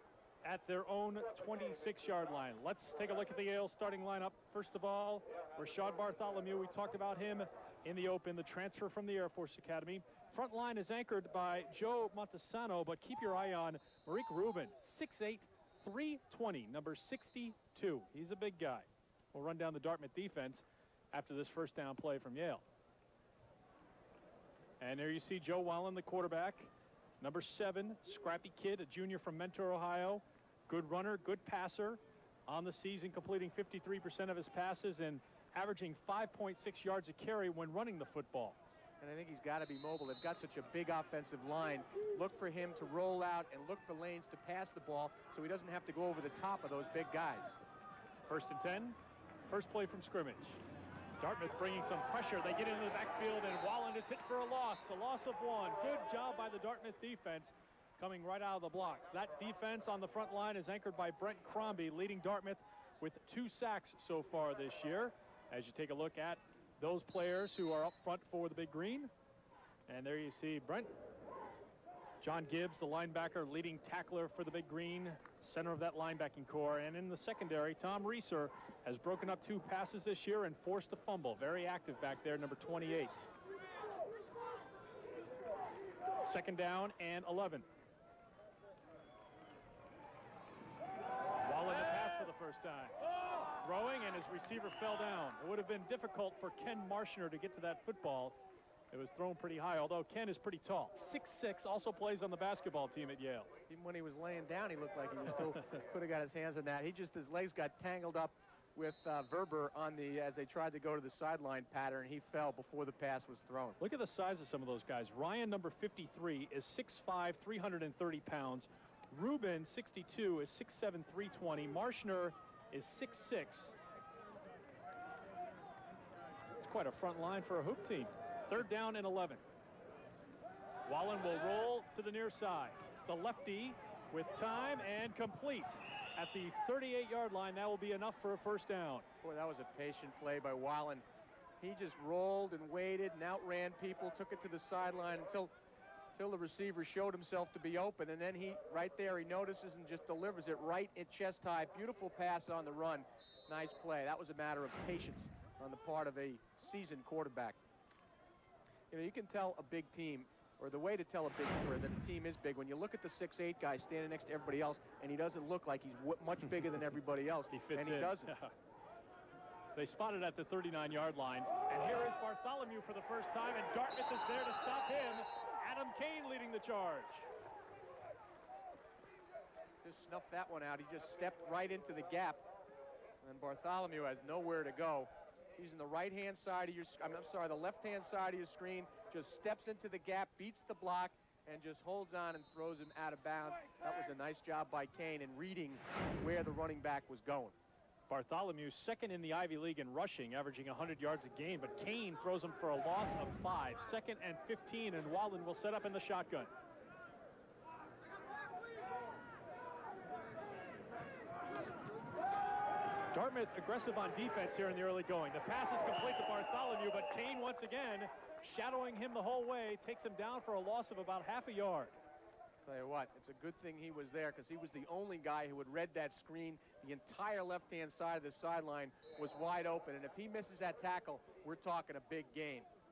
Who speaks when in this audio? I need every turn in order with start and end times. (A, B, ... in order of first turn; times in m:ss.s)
0:00.4-0:22.6 A
0:24.8-0:26.7 A
0:27.2-0:38.6 A
0:39.0-0:47.6 B
0:48.3-0:49.0 A
0:49.5-0:50.6 A
0:51.2-1:09.1 A
1:09.9-1:10.9 A
1:12.2-1:23.2 A
1:26.2-1:27.7 A
1:31.4-1:33.0 A
1:33.6-1:38.4 A
1:38.9-1:43.5 A
1:43.7-1:53.8 B
1:53.8-2:03.8 A
2:06.6-2:09.4 A
2:10.9-2:19.1 A
2:19.2-2:21.0 B
2:21.6-2:25.5 B
2:26.2-2:37.6 B
2:38.9-2:48.3 B
2:47.5-2:48.5 A
2:49.8-2:57.3 A
2:59.8-3:02.4 B
3:03.2-3:17.6 B
3:18.1-3:26.5 A
3:33.1-3:41.9 A
3:42.6-3:52.7 B